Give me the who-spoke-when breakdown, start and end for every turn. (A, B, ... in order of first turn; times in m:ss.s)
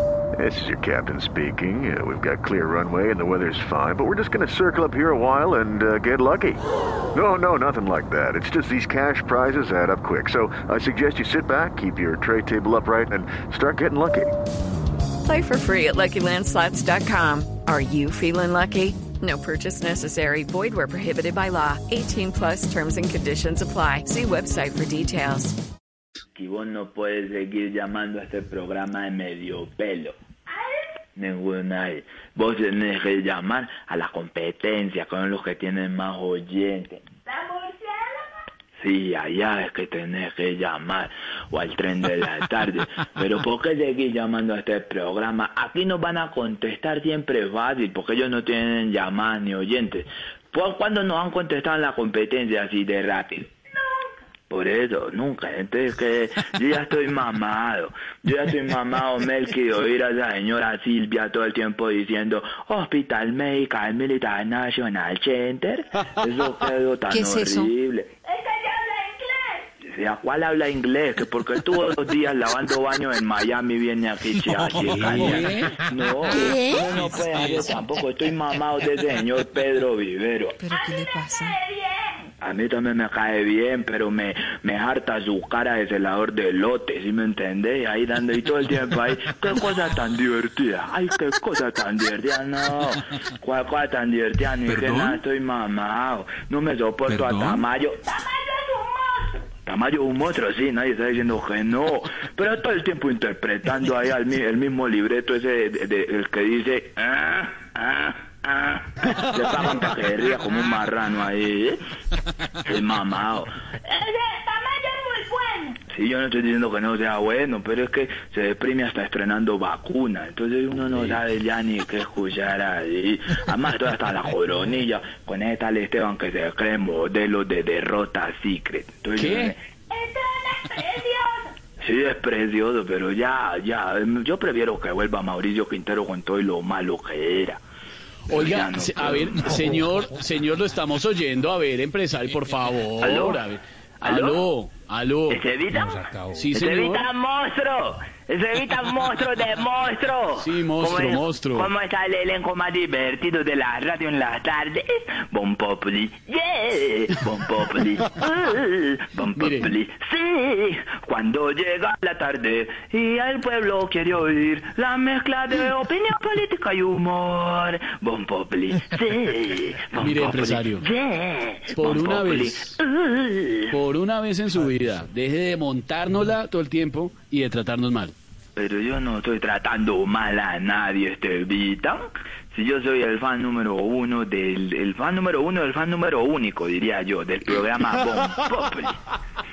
0:00.4-0:06.6 A
0:07.1-0:14.3 A
0:15.2-0:25.6 B
0:26.4-0:30.1 C
0:31.2-0:37.2 C
0:37.3-0:38.0 B
0:38.8-0:53.6 C
0:54.5-1:08.1 C
1:07.1-1:07.7 D
1:09.8-1:21.0 C
1:14.8-1:15.8 E
1:16.4-1:16.8 D
1:16.7-1:17.9 E
1:20.6-1:21.6 D
1:21.6-1:51.8 C
1:52.6-1:53.5 C
1:53.9-1:55.8 B
1:55.8-2:09.6 C
2:09.2-2:09.5 E
2:10.0-2:11.1 B
2:11.8-2:17.6 C
2:18.3-2:19.9 C
2:18.3-2:25.4 E
2:23.0-2:23.4 C
2:24.0-2:24.4 C
2:25.3-2:53.7 C
2:26.0-2:27.1 E
2:30.4-2:31.7 E
2:39.4-2:39.7 E
2:50.0-2:50.9 E
2:51.7-2:52.8 E
2:53.7-2:58.1 E
2:58.6-3:09.0 C